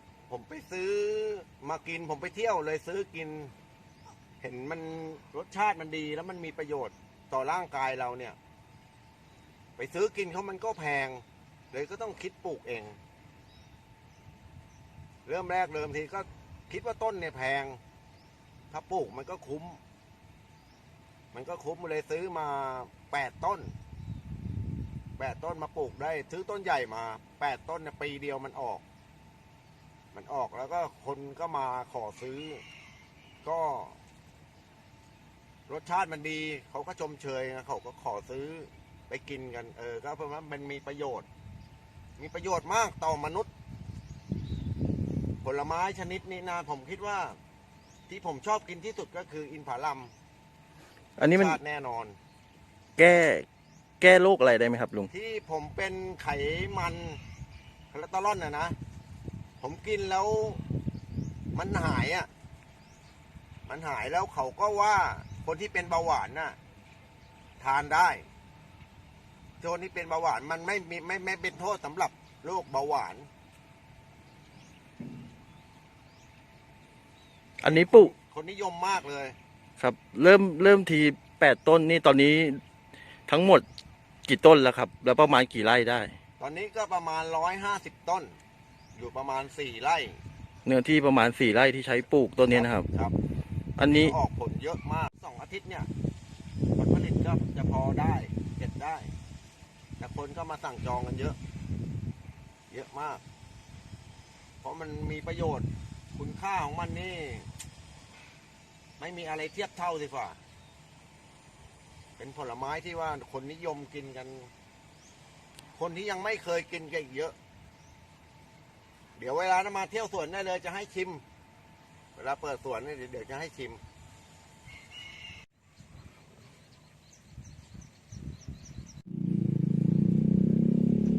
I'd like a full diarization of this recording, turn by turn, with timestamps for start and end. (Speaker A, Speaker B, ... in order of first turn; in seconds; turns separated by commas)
Speaker A: 0.3-3.5, Speaker A: 4.4-8.4, Speaker A: 9.8-13.0, Speaker A: 15.3-17.8, Speaker A: 18.7-19.8, Speaker A: 21.3-23.7, Speaker A: 25.2-28.8, Speaker A: 30.1-32.6, Speaker A: 33.4-34.0, Speaker A: 35.7-41.3, Speaker A: 42.2-43.5, Speaker A: 45.4-47.4, Speaker A: 48.1-50.1, Speaker B: 51.2-51.6, Speaker A: 51.2-52.2, Speaker B: 53.0-53.5, Speaker B: 54.0-55.1, Speaker A: 55.1-57.2, Speaker A: 57.9-58.8, Speaker A: 59.6-60.6, Speaker A: 61.5-62.3, Speaker A: 63.7-66.6, Speaker A: 67.6-68.2, Speaker A: 69.6-73.3, Speaker B: 77.6-78.1, Speaker A: 77.6-79.4, Speaker B: 79.8-82.6, Speaker B: 83.3-83.6, Speaker B: 84.3-86.1, Speaker A: 86.4-88.3, Speaker A: 89.0-90.2, Speaker B: 90.7-92.9, Speaker A: 92.5-93.2, Speaker B: 93.8-94.2, Speaker A: 93.9-95.9, Speaker A: 96.8-99.1, Speaker A: 100.0-101.4, Speaker A: 102.7-103.2, Speaker A: 104.6-107.5, Speaker A: 109.0-110.4, Speaker A: 112.2-114.5, Speaker A: 115.8-117.3, Speaker A: 119.2-121.2, Speaker A: 122.2-123.8